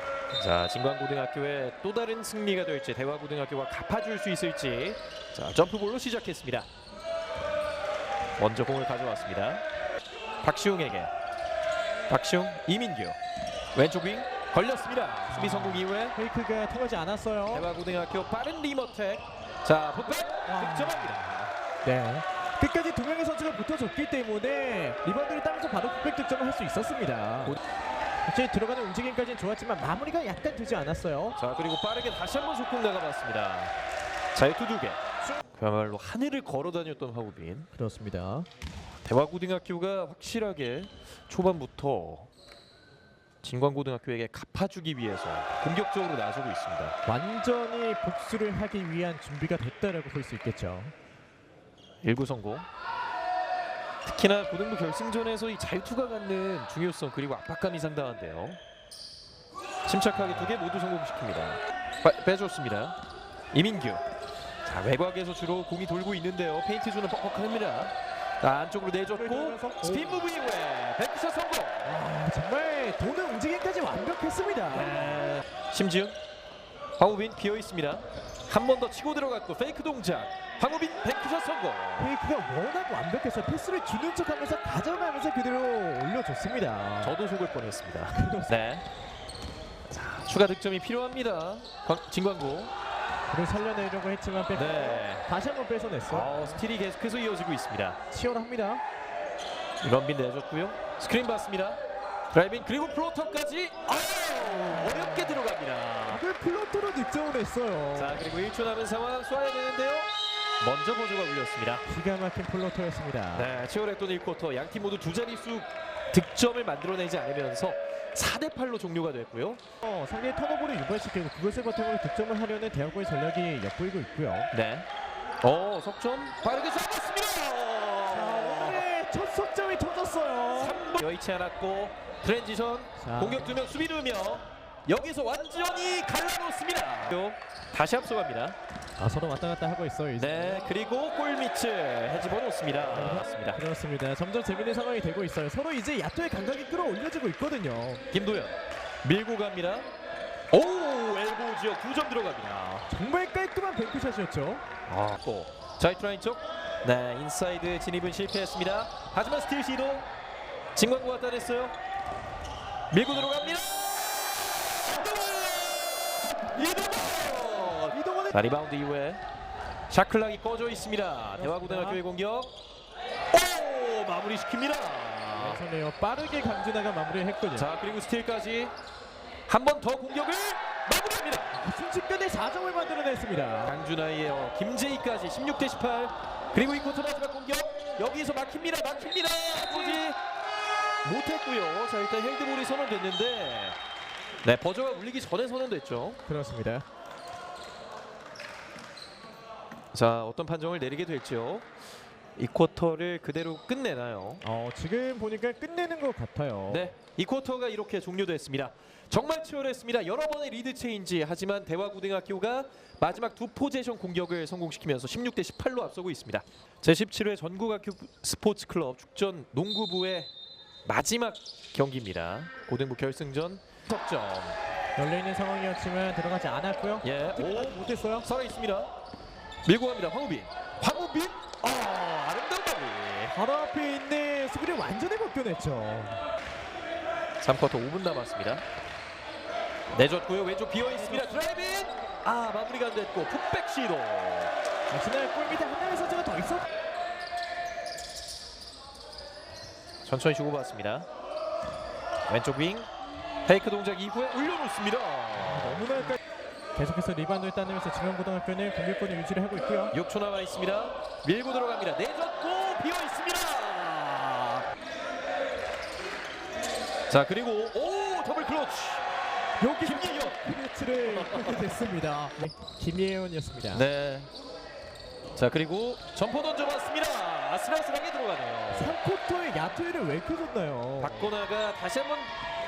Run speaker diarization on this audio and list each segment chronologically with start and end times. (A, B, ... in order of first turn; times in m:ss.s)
0:00.3-0:06.7 A
0:08.4-0:09.6 A
0:10.4-0:11.1 A
0:12.1-0:13.2 A
0:13.7-0:16.2 A
0:15.4-0:17.7 B
0:17.5-0:21.5 A
0:20.4-0:21.1 B
0:21.8-0:27.6 B
0:28.3-0:31.4 B
0:31.4-0:33.8 A
0:34.3-0:35.0 A
0:35.6-0:37.7 A
0:37.7-0:38.5 B
0:39.0-0:42.3 A
0:43.4-0:47.0 A
0:47.1-0:51.0 B
0:52.0-0:52.7 A
0:54.0-0:58.6 A
0:59.9-1:03.0 A
1:03.5-1:04.0 A
1:04.6-1:12.0 A
1:09.1-1:10.3 B
1:11.8-1:15.2 B
1:14.7-1:16.2 A
1:17.0-1:22.1 A
1:22.0-1:27.2 B
1:27.0-1:28.8 A
1:28.2-1:28.5 B
1:29.9-1:32.7 A
1:33.3-1:36.6 B
1:34.5-1:35.2 A
1:36.1-1:38.0 A
1:38.1-1:38.8 B
1:39.8-1:41.8 A
1:42.3-1:46.2 A
1:44.8-1:45.0 B
1:46.1-1:48.2 B
1:48.0-1:50.1 A
1:50.6-1:51.9 A
1:51.9-1:53.6 B
1:53.3-1:59.6 A
1:59.8-2:04.5 B
2:04.5-2:04.9 A
2:05.4-2:08.9 A
2:08.1-2:10.8 B
2:10.5-2:18.6 A
2:13.0-2:13.6 B
2:19.0-2:20.7 B
2:20.2-2:23.6 A
2:22.9-2:28.0 B
2:28.1-2:29.9 A
2:30.5-2:32.9 A
2:32.9-2:34.6 B
2:34.9-2:40.1 A
2:40.8-2:41.8 A
2:42.9-2:49.2 A
2:43.2-2:43.6 B
2:47.9-2:48.4 B
2:49.9-2:52.5 A
2:51.4-2:52.0 B
2:53.3-2:55.6 A
2:55.4-2:57.7 B
2:57.5-2:58.7 A
2:59.5-3:01.6 A
3:01.6-3:03.8 B
3:03.6-3:10.2 A
3:09.6-3:10.0 B
3:11.0-3:13.8 A
3:14.4-3:16.2 A
3:16.3-3:16.8 B
3:19.9-3:21.7 A
3:22.4-3:24.4 A
3:24.4-3:26.9 B
3:26.7-3:40.3 A
3:40.9-3:44.6 A
3:45.0-3:48.3 B
3:47.0-3:48.9 A
3:49.6-3:53.4 A
3:53.3-3:56.3 B
3:57.4-3:58.6 A
3:59.9-4:04.5 A
4:01.0-4:01.4 B
4:04.9-4:06.7 B
4:10.0-4:11.1 A
4:12.3-4:12.9 A
4:13.5-4:15.9 A
4:15.4-4:16.2 B
4:16.8-4:20.0 B
4:19.9-4:24.7 A
4:27.1-4:29.0 A
4:29.6-4:33.9 B
4:29.8-4:30.4 A
4:31.0-4:31.8 A
4:33.7-4:34.3 A
4:35.4-4:39.0 A
4:38.7-4:41.4 B
4:41.0-4:42.3 A